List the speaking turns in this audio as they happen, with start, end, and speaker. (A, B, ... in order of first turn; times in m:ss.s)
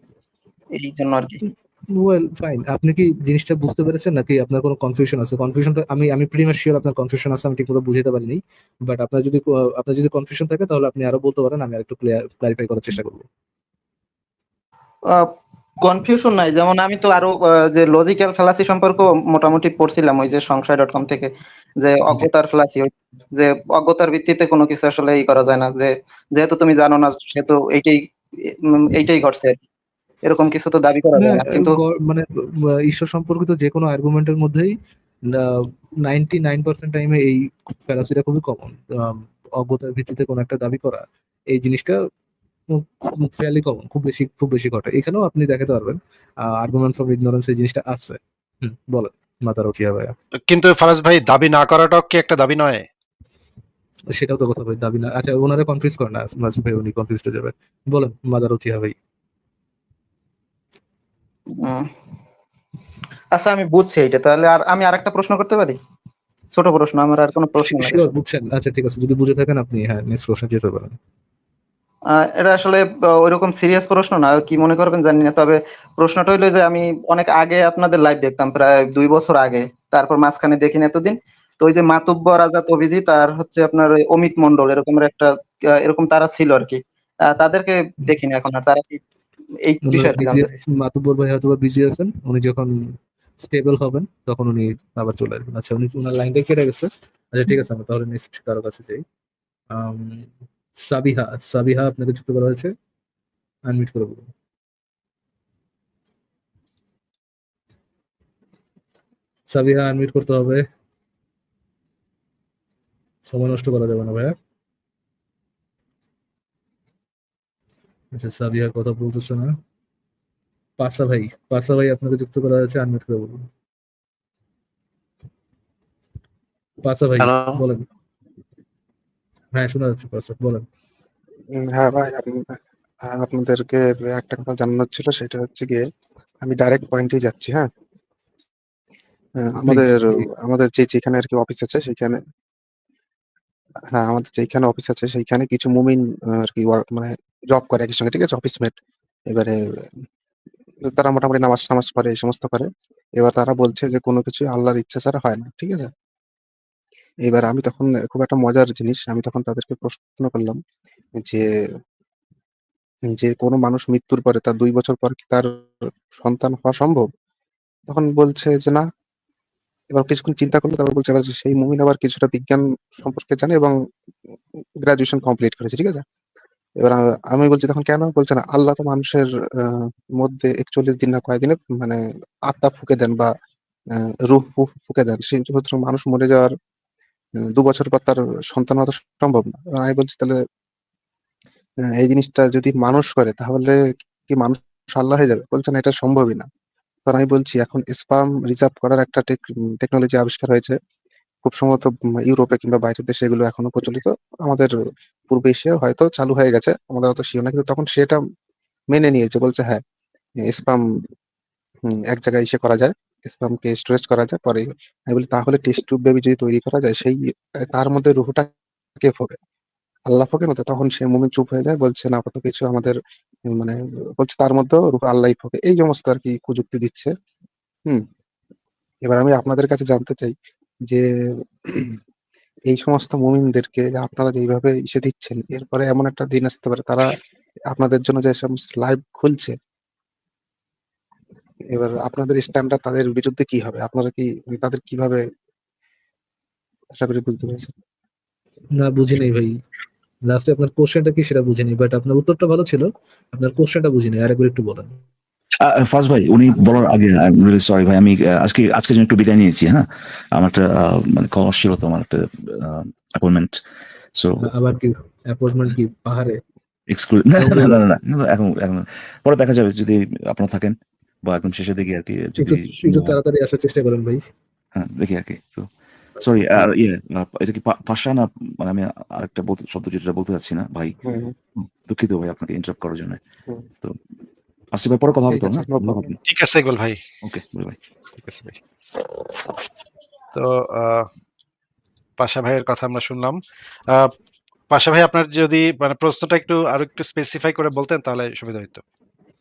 0:00.8-0:01.4 A
0:01.9-0:13.2 B
0:15.8-0:21.3 A
0:21.8-0:28.0 A
0:28.8-0:29.6 A
0:30.3-0:31.8 A
0:31.2-0:34.7 B
0:35.3-0:42.0 B
0:42.7-0:50.1 B
0:50.5-0:52.9 C
0:54.1-0:59.0 B
1:01.6-1:01.8 A
1:03.3-1:05.8 A
1:06.5-1:08.1 A
1:07.6-1:11.0 B
1:12.4-1:25.3 A
1:25.8-1:29.0 A
1:29.7-1:30.6 A
1:29.8-1:32.7 B
1:33.4-1:39.0 B
1:39.7-1:40.3 B
1:40.8-1:42.7 B
1:43.7-1:44.3 B
1:49.5-1:50.6 B
1:53.3-1:54.4 B
1:58.1-1:59.5 B
2:00.8-2:03.4 B
2:06.8-2:07.8 B
2:07.2-2:07.6 C
2:09.5-2:10.6 B
2:11.6-2:12.4 D
2:13.1-2:15.8 D
2:16.4-2:17.7 D
2:19.4-2:22.2 D
2:19.7-2:20.3 B
2:23.9-2:28.8 D
2:29.3-2:29.9 D
2:30.9-2:35.9 D
2:37.3-2:40.6 D
2:41.2-2:41.4 D
2:43.1-2:45.5 D
2:46.2-2:47.0 D
2:47.9-2:48.8 D
2:49.9-2:53.7 D
2:54.8-2:56.0 D
2:56.8-3:03.3 D
3:04.0-3:06.5 D
3:07.5-3:10.4 D
3:12.0-3:16.5 D
3:17.1-3:20.8 D
3:21.4-3:24.7 D
3:25.3-3:28.2 D
3:28.9-3:29.8 D
3:30.4-3:30.8 D
3:31.9-3:38.5 D
3:39.0-3:39.4 D
3:40.1-3:43.0 D
3:43.5-3:47.1 D
3:49.1-3:50.4 D
3:51.6-3:52.0 D
3:52.7-3:57.2 D
3:57.7-3:59.6 D
4:01.7-4:05.2 D
4:06.9-4:07.7 D
4:08.8-4:09.5 B
4:10.3-4:14.9 B
4:15.6-4:23.6 E
4:24.2-4:24.5 E
4:24.4-4:26.4 B
4:26.9-4:33.2 E
4:27.4-4:27.8 B
4:32.4-4:34.2 B
4:34.8-4:41.0 E
4:41.0-4:41.3 D
4:41.6-4:43.2 E
4:44.7-4:46.2 E
4:45.3-4:46.1 D
4:46.2-4:47.0 C
4:47.2-4:47.8 E
4:48.1-4:48.6 C
4:50.3-4:51.1 C
4:52.2-4:54.1 C
4:54.7-4:58.8 C